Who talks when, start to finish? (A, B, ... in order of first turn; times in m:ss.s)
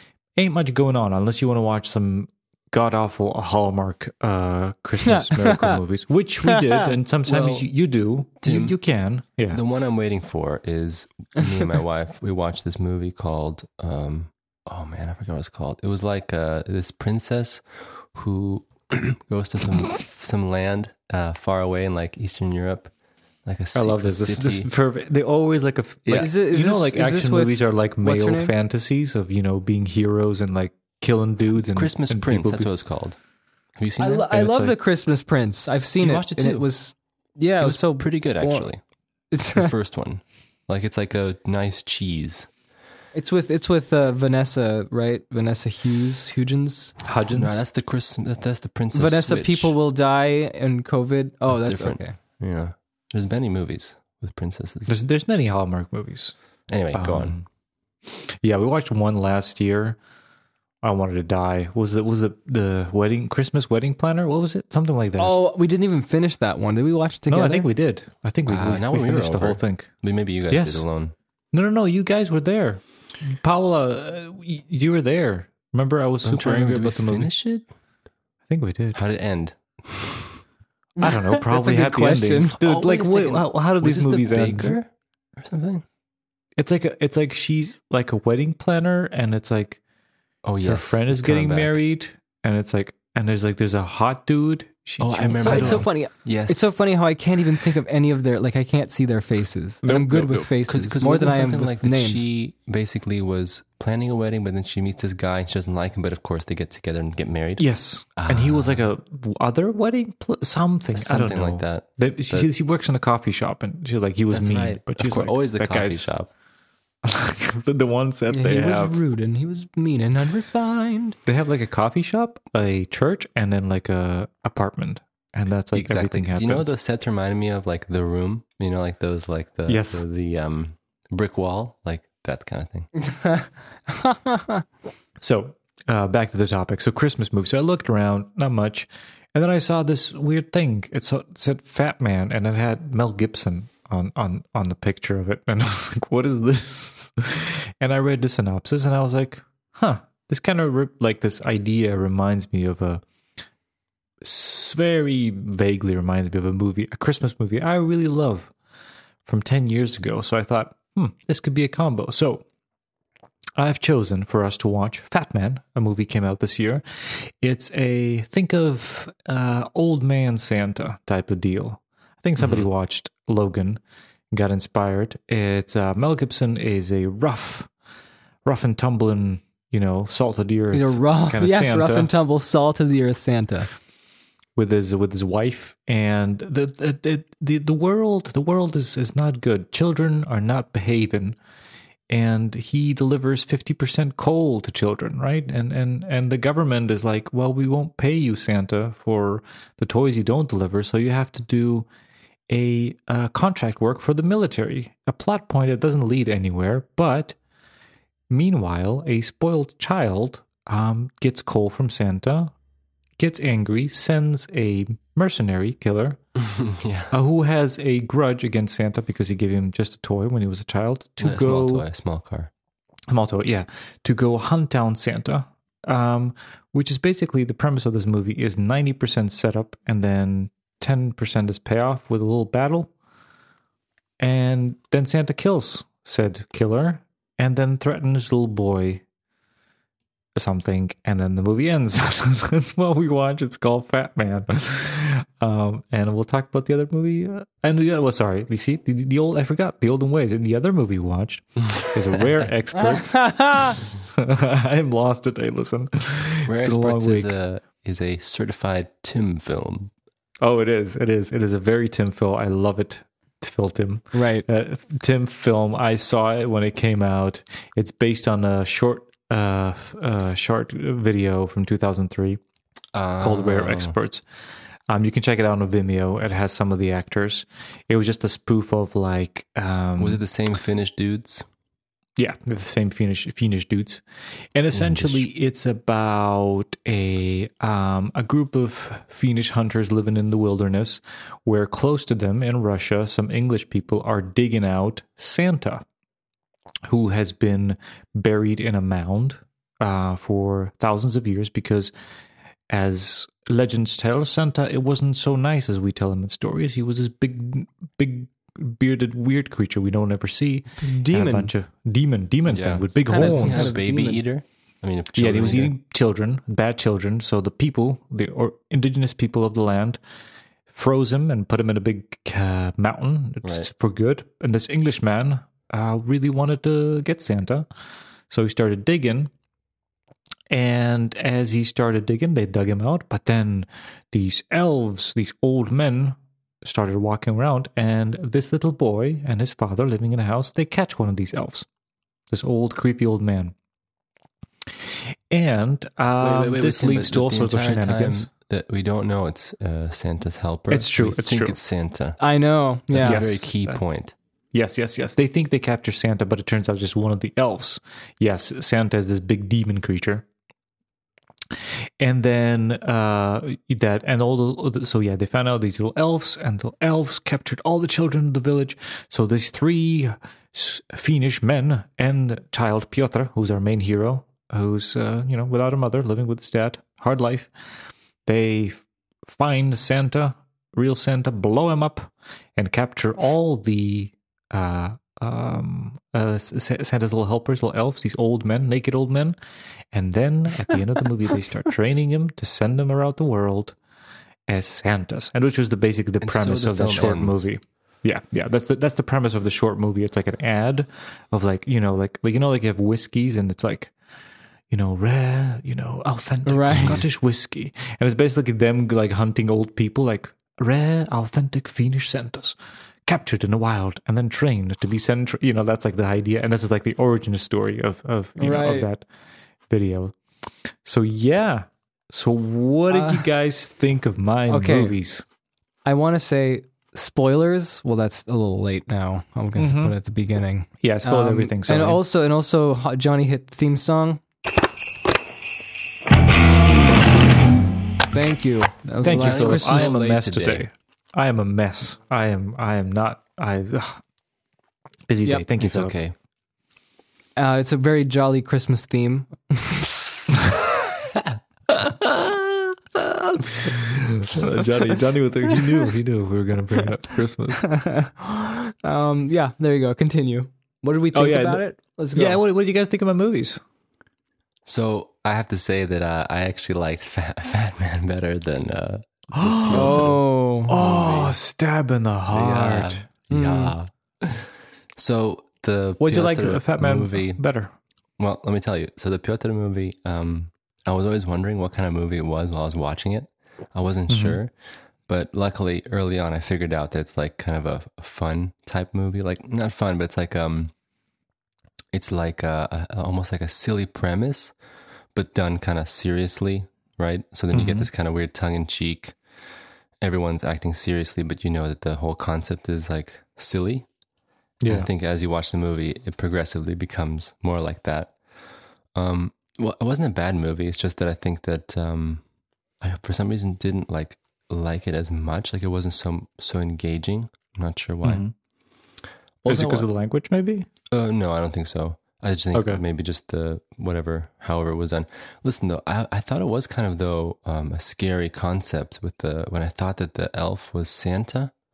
0:00.4-0:09.6 A
0:05.1-0:05.7 B
0:06.5-0:06.8 B
0:07.2-0:07.7 C
0:08.4-0:08.8 C
0:09.5-0:22.9 C
0:23.4-0:24.7 C
0:23.7-0:32.7 A
0:26.0-0:26.3 C
0:26.1-0:28.5 B
0:31.7-0:33.2 C
0:33.8-0:34.4 C
0:34.0-0:38.7 B
0:34.3-0:34.8 A
0:36.0-0:36.7 C
0:37.6-0:38.8 C
0:39.3-0:39.7 B
0:39.5-0:42.5 C
0:43.1-0:47.0 B
0:47.0-0:47.6 A
0:47.3-0:49.7 C
0:48.9-0:52.1 B
0:51.5-0:55.0 C
0:54.9-0:56.3 A
0:56.7-0:57.4 C
0:56.9-0:57.4 A
0:58.0-1:00.0 A
1:00.8-1:05.4 A
1:05.2-1:07.7 B
1:07.3-1:09.9 A
1:08.5-1:11.1 C
1:10.5-1:10.8 A
1:11.5-1:17.3 A
1:16.2-1:17.6 C
1:18.5-1:19.0 A
1:18.9-1:20.4 C
1:21.0-1:22.6 B
1:21.0-1:24.8 A
1:22.6-1:25.8 C
1:26.6-1:29.8 A
1:30.4-1:31.8 C
1:30.6-1:35.9 A
1:35.0-1:36.7 C
1:35.4-1:42.2 B
1:39.8-1:40.5 A
1:40.7-1:48.8 C
1:47.6-1:56.1 A
1:50.9-1:52.5 C
1:54.3-1:56.3 C
1:57.0-1:59.0 A
1:58.3-2:01.2 B
2:01.2-2:06.8 A
2:05.7-2:12.9 C
2:09.7-2:10.0 A
2:13.1-2:14.6 B
2:15.2-2:33.0 A
2:34.2-2:38.5 A
2:39.2-2:42.4 A
2:43.6-2:53.8 A
2:52.4-2:52.7 C
2:54.3-2:57.7 A
2:58.4-3:02.1 A
3:00.7-3:03.7 B
3:04.6-3:11.4 A
3:12.1-3:21.9 A
3:22.5-3:27.3 A
3:28.3-3:32.5 A
3:33.2-3:36.2 A
3:36.4-3:37.1 C
3:37.1-3:41.8 A
3:41.2-3:42.5 C
3:43.1-3:52.9 A
3:54.2-3:59.0 A
4:00.4-4:17.3 A
4:12.9-4:13.7 B
4:16.4-4:19.9 C
4:20.4-4:32.4 A
4:24.1-4:24.4 B
4:32.9-4:33.9 C
4:33.2-4:34.2 A
4:34.9-4:40.2 A
4:40.0-4:41.4 C
4:42.2-4:44.0 A
4:44.5-4:55.8 A
4:44.7-4:45.2 C
4:56.8-5:01.9 A
5:02.7-5:13.8 A
5:10.8-5:11.5 B
5:12.5-5:15.7 C
5:13.0-5:14.2 B
5:15.2-5:20.0 A
5:20.7-5:27.6 A
5:23.4-5:23.7 C
5:28.3-5:29.3 A
5:30.5-5:41.6 A
5:42.3-5:43.5 A
5:45.3-5:48.3 A
5:46.2-5:52.2 C
5:50.7-5:51.6 A
5:52.2-5:53.2 B
5:52.9-5:54.1 C
5:53.0-5:53.8 A
5:54.5-6:00.2 A
6:02.0-6:17.5 A
6:18.2-6:29.4 A
6:29.9-6:33.7 A
6:34.5-6:43.9 A
6:36.2-6:37.4 C
6:44.7-6:52.5 A
6:46.4-6:47.0 B
6:46.7-6:47.0 C
6:53.1-6:59.0 A
6:58.4-6:58.9 B
6:59.7-7:00.1 A
7:00.8-7:05.2 A
7:02.9-7:03.2 B
7:04.5-7:04.9 B
7:05.8-7:14.2 B
7:09.6-7:09.9 A
7:10.8-7:12.0 A
7:18.1-7:19.9 B
7:19.0-7:20.7 C
7:19.0-7:24.0 A
7:25.1-7:25.9 A
7:25.6-7:26.1 C
7:27.4-7:30.0 B
7:31.7-7:37.8 A
7:37.6-7:42.4 B
7:41.1-7:43.6 A
7:44.6-7:51.3 C
7:49.4-7:50.2 A
7:49.7-7:50.8 B
7:50.7-7:53.0 A
7:52.3-7:57.4 C
7:53.3-7:53.7 B
7:56.0-7:57.7 A
7:58.2-8:04.5 C
8:04.1-8:04.4 A
8:05.1-8:10.7 C
8:11.9-8:14.5 C
8:15.1-8:19.2 C
8:17.5-8:17.9 A
8:20.0-8:23.8 C
8:24.6-8:24.9 A
8:24.7-8:28.2 C
8:28.9-8:32.2 C
8:32.8-8:38.2 C
8:38.0-8:38.3 A
8:39.4-8:39.9 C
8:39.4-8:40.6 A
8:40.9-8:51.5 C
8:42.5-8:42.8 A